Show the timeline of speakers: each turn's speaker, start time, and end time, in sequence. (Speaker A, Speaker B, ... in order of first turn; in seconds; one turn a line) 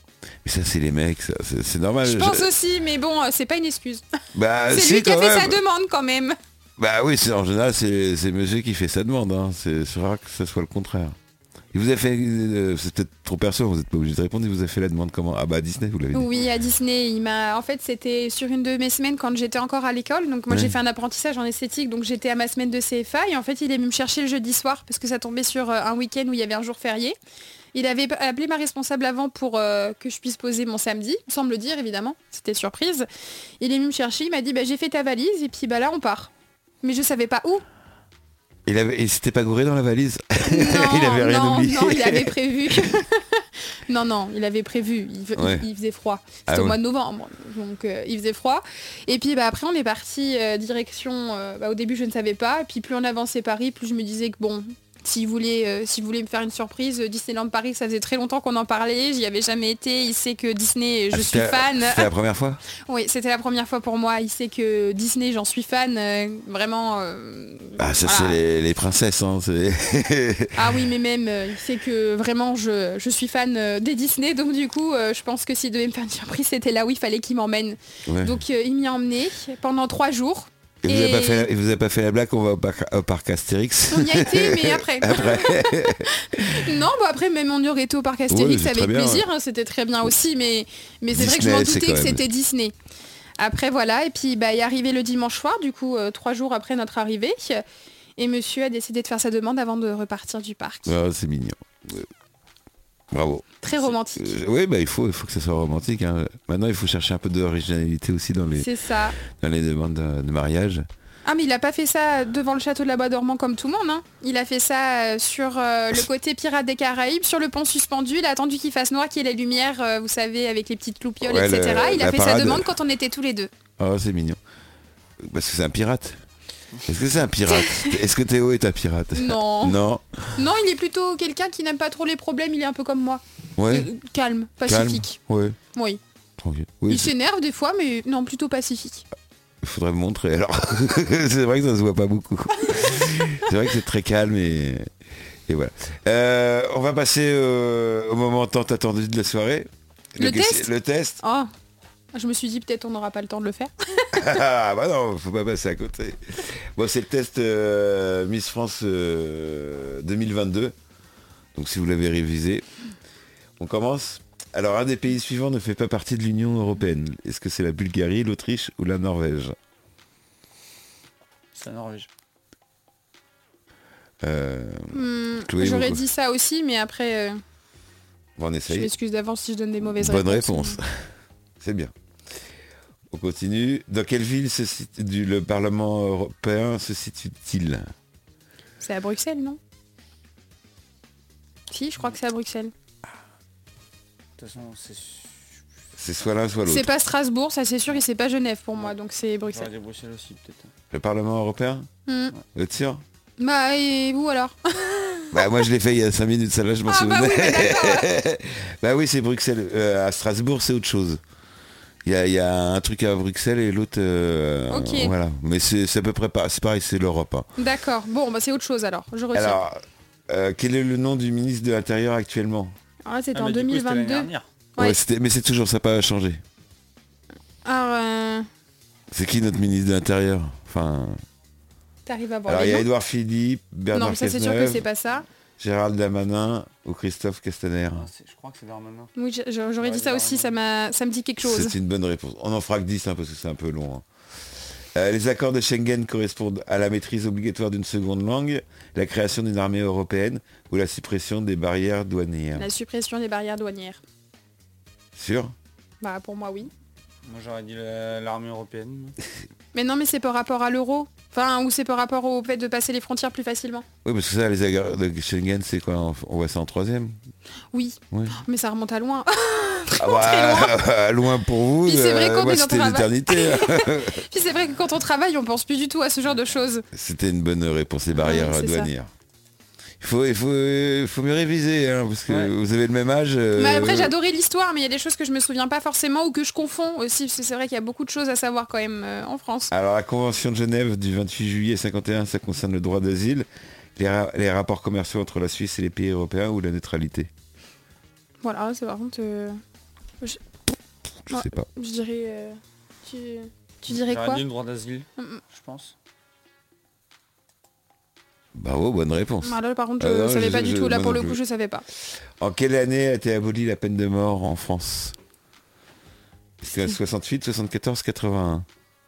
Speaker A: 0.4-2.5
Speaker B: 2.0-4.0
Speaker A: 4.3-5.6
Speaker B: 4.7-6.4
Speaker A: 6.8-11.2
Speaker A: 11.7-16.3
Speaker B: 16.1-27.2
Speaker A: 20.5-20.8
Speaker B: 27.7-33.1
Speaker B: 33.6-36.3
Speaker B: 36.8-37.6
Speaker A: 38.7-43.0
Speaker B: 40.5-62.1
Speaker A: 45.4-45.7
Speaker A: 46.5-46.8
Speaker A: 61.1-62.6
Speaker B: 62.9-68.4
Speaker A: 67.8-70.8
Speaker B: 70.5-81.5
Speaker A: 78.1-78.4
Speaker A: 80.8-86.7
Speaker B: 83.9-92.7
Speaker A: 88.3-89.3
Speaker A: 91.1-92.3
Speaker B: 93.4-97.6
Speaker B: 98.2-101.0
Speaker A: 100.9-102.1
Speaker A: 103.1-108.7
Speaker B: 103.6-104.4
Speaker B: 108.6-109.2
Speaker A: 109.2-110.9
Speaker B: 111.3-123.5
Speaker A: 121.2-122.7
Speaker A: 123.8-124.4
Speaker A: 125.2-126.2
Speaker A: 126.8-130.4
Speaker B: 127.5-128.0
Speaker B: 129.1-129.8
Speaker B: 130.4-135.2
Speaker A: 133.6-133.9
Speaker A: 134.7-135.6
Speaker B: 135.7-136.0
Speaker A: 136.4-137.1
Speaker B: 136.9-139.1
Speaker A: 139.6-144.9
Speaker A: 145.5-151.2
Speaker B: 150.2-151.5
Speaker B: 152.1-154.3
Speaker A: 154.1-160.7
Speaker A: 161.6-162.7
Speaker A: 163.6-169.6
Speaker C: 171.5-172.1
Speaker A: 174.2-176.0
Speaker B: 174.9-177.4
Speaker A: 178.4-178.9
Speaker B: 178.7-180.8
Speaker A: 179.9-181.0
Speaker A: 181.6-181.9
Speaker A: 183.1-187.9
Speaker B: 188.8-189.6
Speaker B: 191.7-192.7
Speaker C: 194.4-195.6
Speaker A: 196.0-196.9
Speaker B: 196.7-199.7
Speaker C: 199.4-200.7
Speaker A: 200.9-201.9
Speaker B: 202.1-202.3
Speaker A: 202.5-203.0
Speaker B: 203.4-205.6
Speaker A: 205.3-211.2
Speaker B: 206.9-208.1
Speaker A: 212.1-217.5
Speaker B: 214.7-215.1
Speaker B: 217.6-219.6
Speaker A: 219.3-222.8
Speaker B: 223.1-225.0
Speaker C: 223.3-224.5
Speaker A: 224.8-226.4
Speaker B: 227.7-228.5
Speaker A: 229.1-231.2
Speaker B: 232.1-232.9
Speaker A: 232.5-234.8
Speaker B: 233.9-235.2
Speaker A: 235.6-238.1
Speaker C: 237.9-239.1
Speaker B: 239.2-241.8
Speaker C: 239.8-240.5
Speaker A: 241.4-244.1
Speaker A: 244.9-252.7
Speaker B: 252.6-254.0
Speaker A: 255.1-255.6
Speaker B: 256.0-256.7
Speaker C: 257.2-259.2
Speaker B: 259.7-263.9
Speaker A: 264.0-267.2
Speaker B: 267.7-270.8
Speaker A: 268.1-268.4
Speaker A: 270.0-274.2
Speaker B: 271.8-276.9
Speaker A: 276.9-279.1
Speaker B: 278.2-278.9
Speaker A: 280.0-284.1
Speaker C: 282.3-282.5
Speaker B: 283.6-289.7
Speaker A: 289.7-297.3
Speaker B: 298.4-299.6
Speaker A: 301.3-301.7
Speaker B: 301.3-304.4
Speaker C: 303.9-305.9
Speaker A: 308.5-311.4
Speaker B: 309.4-311.9
Speaker A: 312.4-315.2
Speaker A: 316.6-318.7